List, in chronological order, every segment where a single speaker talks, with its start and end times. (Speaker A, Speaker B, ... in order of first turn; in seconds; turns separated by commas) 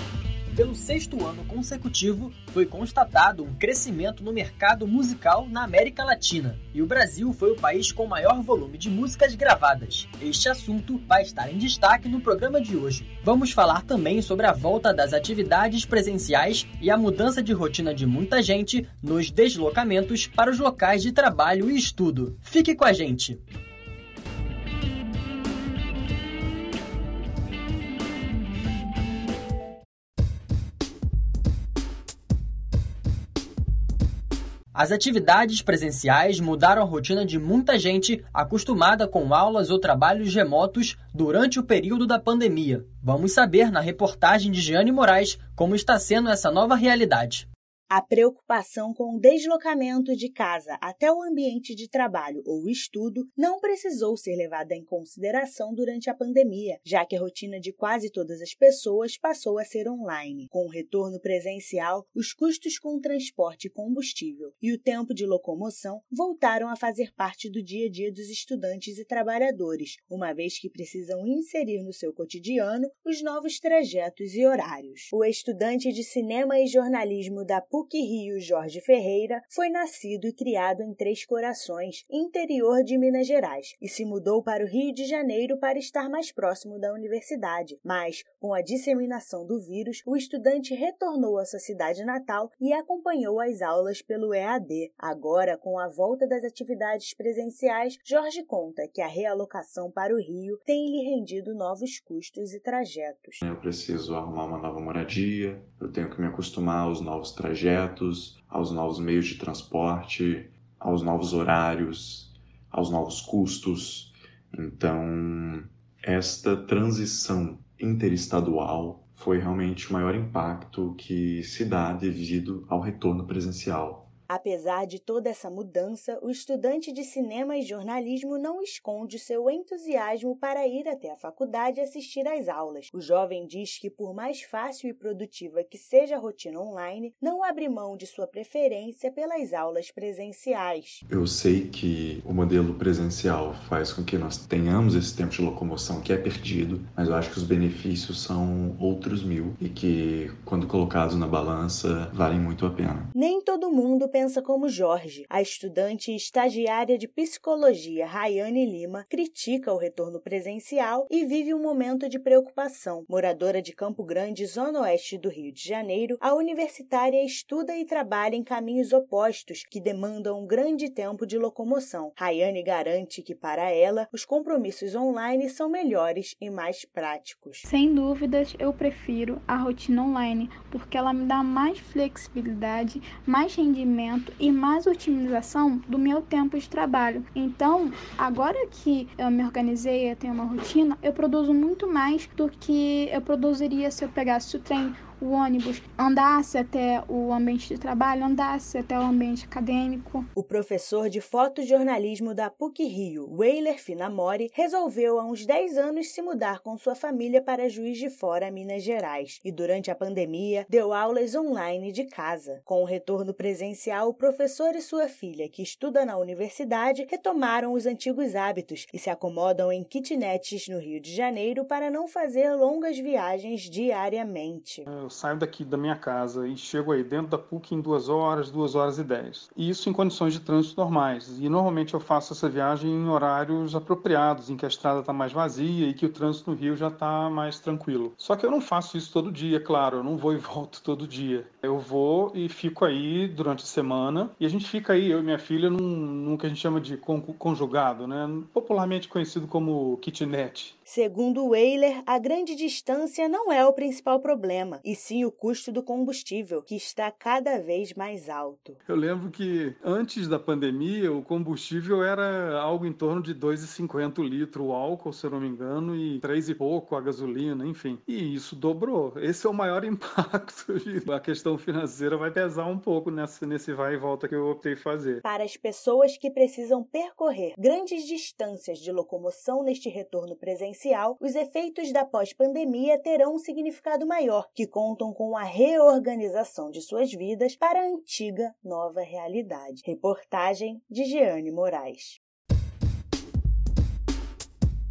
Speaker A: 0.5-23.4, Speaker A: 34.7-47.5, Speaker B: 47.9-103.4, Speaker C: 103.4-124.1, Speaker B: 124.3-141.0, Speaker C: 141.1-153.1, Speaker B: 153.1-177.6, Speaker D: 177.6-200.3, Speaker B: 200.3-224.8, Speaker E: 224.9-250.7, Speaker B: 250.9-258.8, Speaker E: 258.9-275.2, Speaker B: 275.2-292.2